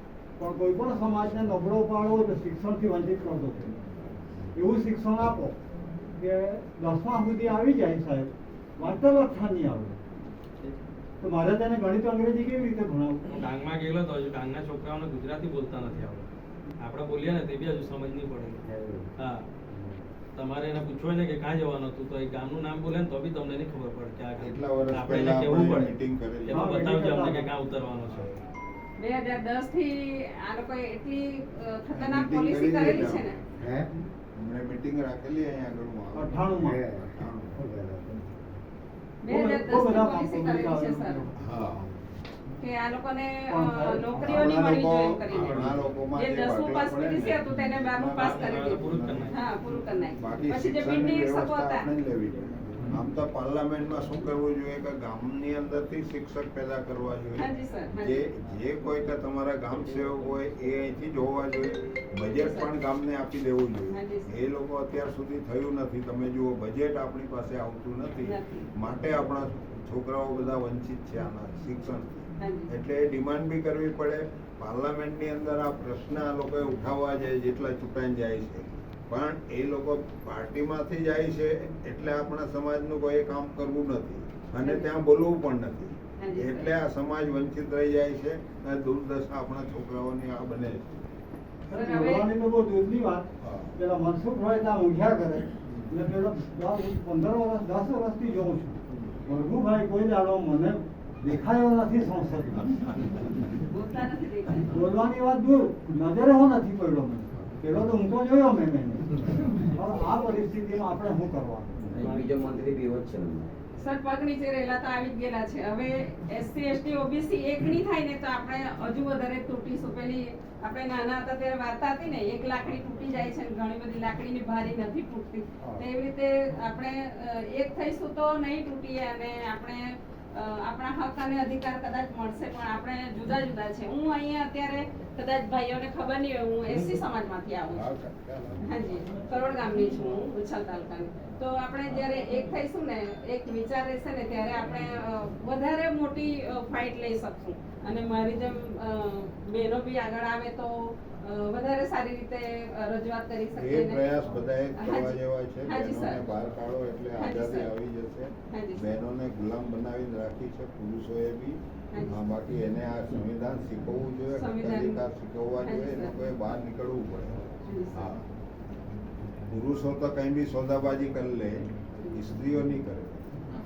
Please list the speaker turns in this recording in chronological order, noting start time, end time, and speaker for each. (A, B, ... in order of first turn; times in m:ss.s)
0:00.4-0:03.7 A
0:04.6-0:05.6 A
0:06.2-0:10.0 A
0:11.2-0:13.2 A
0:13.3-0:16.3 B
0:16.8-0:18.6 B
0:18.7-0:19.1 C
0:19.2-0:19.4 B
0:20.4-0:25.9 B
0:24.4-0:26.7 D
0:26.5-0:28.3 B
0:26.5-0:27.5 A
0:29.0-0:33.4 E
0:31.9-0:33.3 D
0:33.6-0:33.9 C
0:34.4-0:37.6 D
0:36.1-0:36.8 A
0:36.7-0:38.3 C
0:39.2-0:41.2 E
0:39.3-0:41.4 A
0:41.4-0:41.9 D
0:42.6-0:51.8 E
0:43.5-0:44.4 A
0:44.2-0:49.3 D
0:45.4-0:45.7 B
0:48.2-0:49.3 B
0:50.2-1:31.0 D
0:57.4-0:58.3 E
1:02.3-1:02.7 E
1:03.9-1:04.3 E
1:08.2-1:08.7 E
1:12.4-1:12.7 E
1:24.6-1:24.9 E
1:26.2-1:26.7 E
1:31.7-1:42.9 A
1:31.7-1:32.3 E
1:33.4-1:33.8 D
1:43.6-1:44.9 E
1:44.7-1:51.8 A
1:51.9-1:53.5 C
1:53.8-2:17.9 E
2:16.7-2:17.0 D
2:17.7-2:19.0 D
2:18.6-2:34.1 E
2:33.6-2:48.2 D
2:34.8-2:36.2 E
2:37.2-2:37.7 E
2:38.5-2:38.9 E
2:41.9-2:42.2 E
2:44.3-2:45.0 E
2:45.6-2:46.1 E
2:47.7-2:48.1 E
2:49.5-2:53.3 D